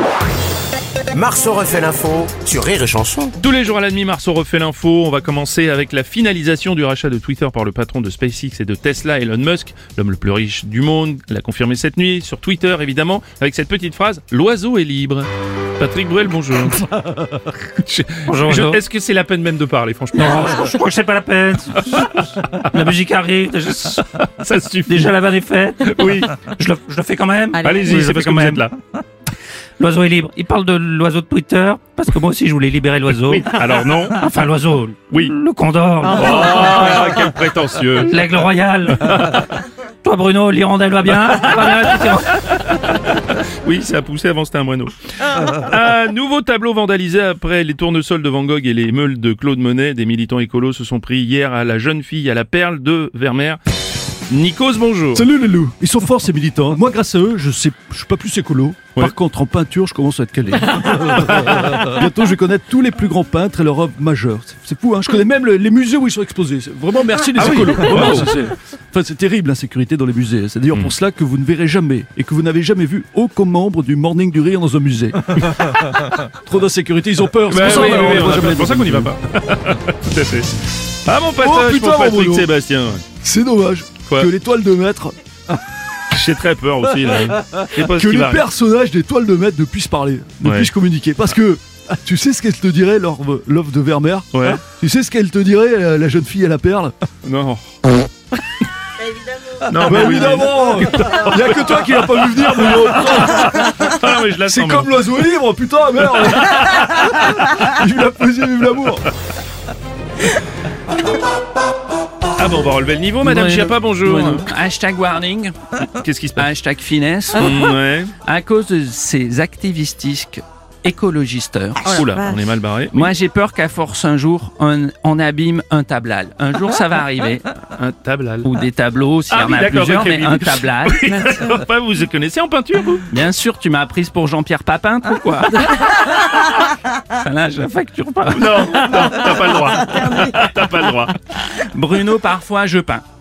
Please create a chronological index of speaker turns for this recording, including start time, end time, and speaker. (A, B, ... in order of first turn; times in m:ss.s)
0:01.2-0:03.3 A
0:03.4-0:17.1 B
0:17.8-0:20.7 B
0:18.3-0:18.8 C
0:20.1-0:24.0 C
0:24.2-0:25.1 B
0:24.9-0:28.6 C
0:25.8-0:26.4 B
0:27.6-0:28.8 B
0:29.8-0:33.5 C
0:33.3-0:34.3 B
0:34.2-0:36.7 C
0:36.0-0:38.3 B
0:36.1-0:37.1 A
0:36.2-0:36.8 D
0:38.1-0:38.6 A
0:38.9-0:39.5 B
0:40.1-0:40.7 C
0:41.2-0:41.6 A
0:41.5-0:53.6 B
0:54.3-0:55.2 B
0:55.1-1:19.1 E
1:01.4-1:01.7 B
1:07.4-1:08.3 B
1:17.5-1:20.5 B
1:21.0-1:23.0 B
1:21.4-1:22.5 E
1:23.2-1:25.2 E
1:26.1-1:28.4 B
1:27.8-1:36.9 E
1:30.4-1:30.7 B
1:34.3-1:34.6 B
1:37.2-1:37.6 B
1:39.6-1:45.2 B
1:39.8-1:43.9 E
1:44.4-1:49.1 E
1:46.1-1:47.1 B
1:52.4-1:54.5 B
1:53.2-1:55.5 D
1:55.8-1:56.5 B
1:56.4-1:57.6 D
1:57.4-1:58.1 B
1:58.2-2:02.0 D
2:01.8-2:03.1 B
2:02.9-2:07.5 D
2:07.7-2:08.5 B
2:08.4-2:11.1 D
2:09.3-2:13.1 B
2:13.1-2:19.2 D
2:18.3-2:21.1 B
2:21.4-2:23.0 D